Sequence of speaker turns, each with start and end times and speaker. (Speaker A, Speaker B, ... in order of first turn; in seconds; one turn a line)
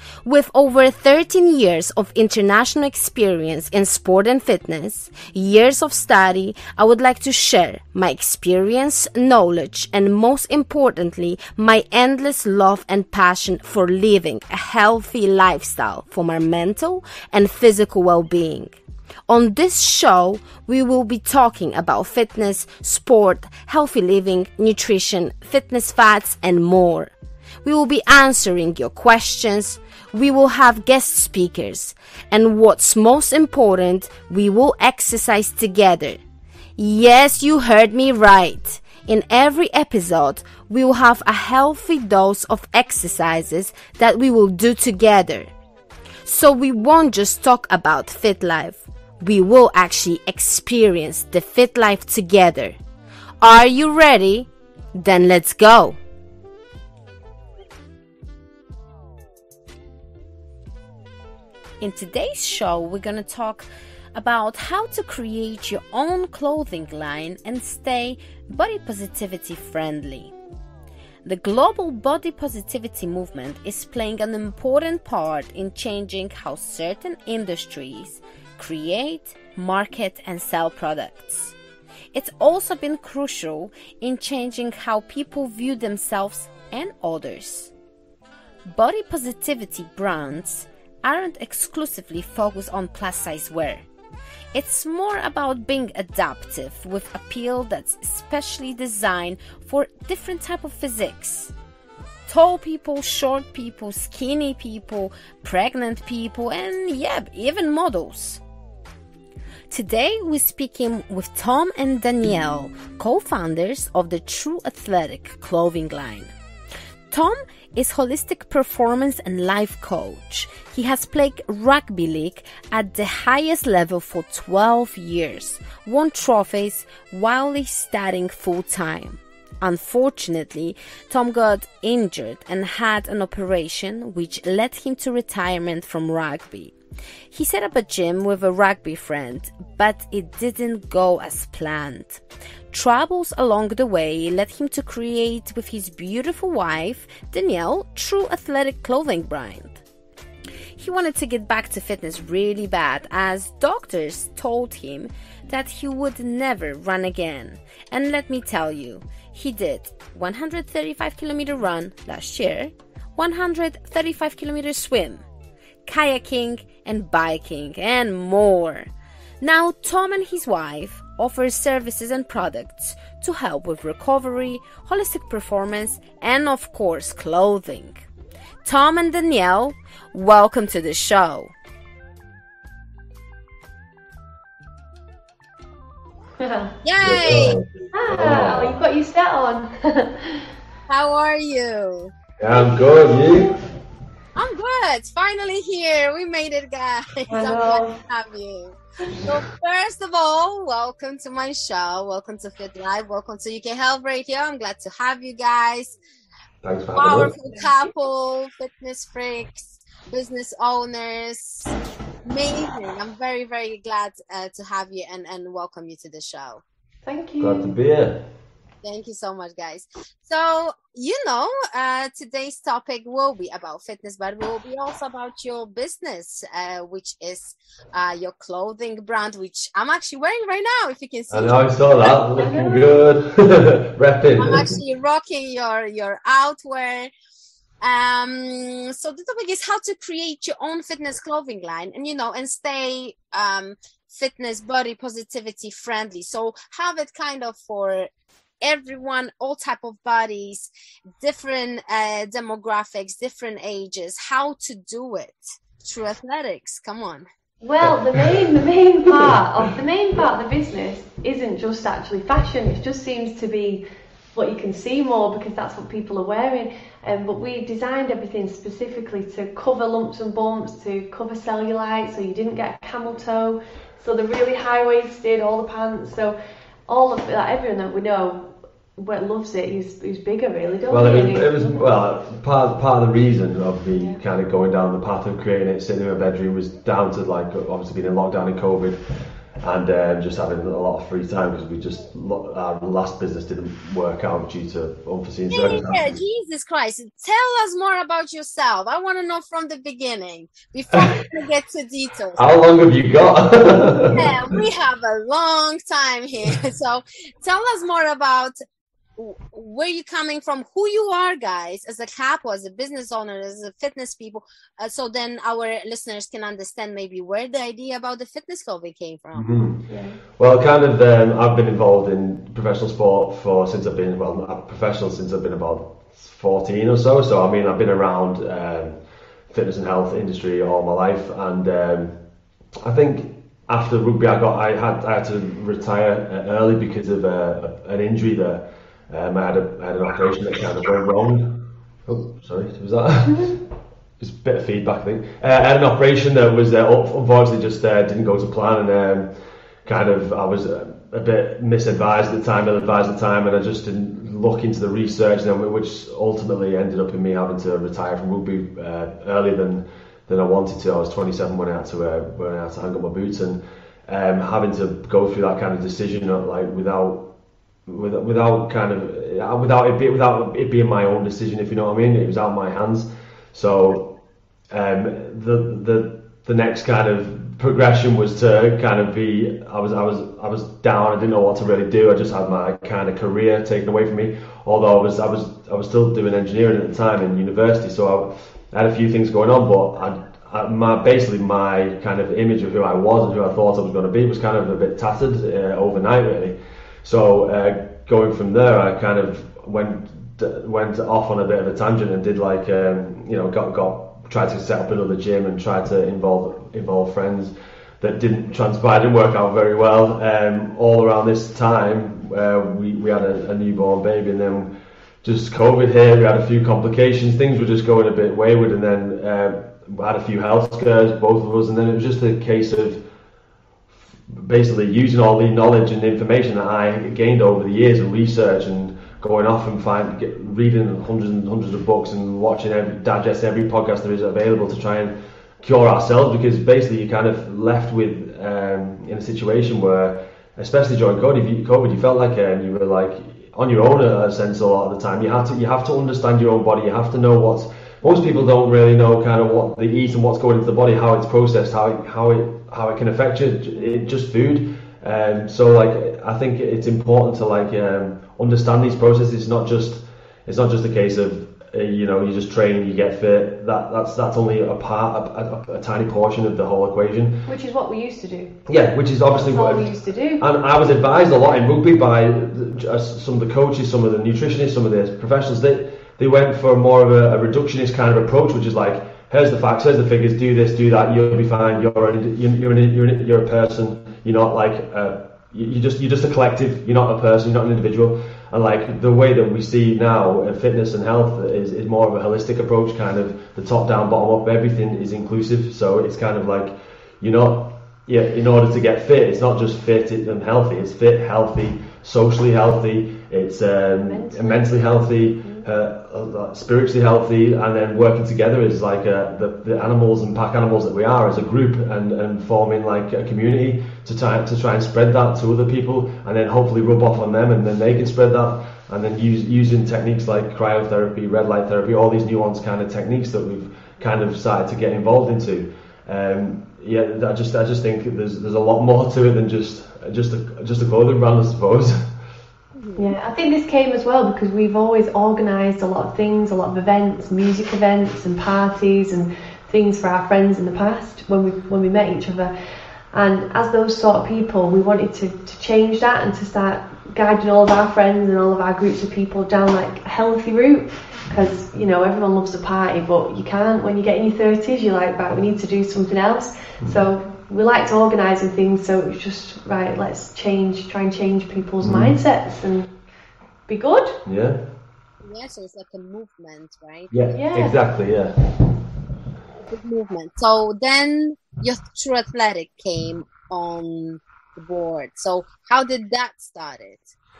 Speaker A: 0.2-18.8
Speaker A: 19.3-27.1
Speaker A: 27.6-36.2
Speaker A: 36.8-45.5
Speaker A: 46.2-52.8
Speaker A: 53.4-56.0
Speaker A: 61.8-70.3
Speaker A: 71.2-81.5
Speaker A: 82.1-87.7
Speaker A: 88.7-93.8
Speaker A: 94.5-101.5
Speaker A: 102.3-108.4
Speaker A: 109.7-116.3
Speaker A: 117.1-136.7
Speaker A: 137.3-149.8
Speaker A: 150.8-165.2
Speaker A: 165.8-178.1
Speaker A: 178.6-181.5
Speaker B: 186.4-186.7
Speaker A: 186.8-187.6
Speaker C: 187.0-188.8
Speaker B: 187.9-190.5
Speaker A: 190.9-192.1
Speaker C: 192.4-193.5
Speaker B: 192.5-192.9
Speaker A: 194.3-206.0
Speaker B: 197.3-198.0
Speaker C: 199.1-199.4
Speaker C: 206.6-207.3
Speaker A: 206.9-211.7
Speaker A: 212.2-216.6
Speaker B: 217.1-217.7
Speaker C: 217.4-218.2
Speaker A: 218.8-231.6
Speaker C: 231.3-234.7
Speaker B: 232.3-232.8
Speaker A: 234.3-237.1
Speaker A: 237.8-248.1
Speaker A: 248.6-250.7
Speaker A: 251.2-257.3
Speaker B: 257.6-263.8
Speaker C: 257.8-258.4
Speaker C: 259.1-259.4
Speaker B: 264.3-276.3
Speaker B: 276.9-281.9
Speaker C: 280.9-289.0
Speaker C: 289.6-296.2
Speaker A: 295.5-302.6
Speaker C: 302.4-304.3
Speaker A: 304.1-308.5
Speaker A: 309.2-319.5
Speaker C: 319.3-319.8
Speaker B: 319.9-320.2
Speaker C: 320.4-328.9
Speaker C: 329.5-332.1
Speaker C: 332.8-343.6
Speaker C: 344.2-349.3
Speaker C: 349.8-367.2
Speaker C: 367.9-374.1
Speaker C: 374.7-414.7
Speaker C: 415.2-423.0
Speaker C: 424.3-467.4
Speaker B: 467.4-468.6
Speaker C: 468.7-532.0
Speaker B: 469.3-470.4
Speaker B: 504.0-504.8
Speaker A: 532.8-533.1
Speaker B: 533.0-542.5
Speaker B: 543.1-562.9
Speaker C: 561.8-562.2
Speaker B: 563.7-564.2
Speaker C: 564.2-564.6
Speaker A: 565.2-567.1
Speaker C: 567.1-568.3
Speaker B: 567.3-567.8
Speaker A: 569.6-577.1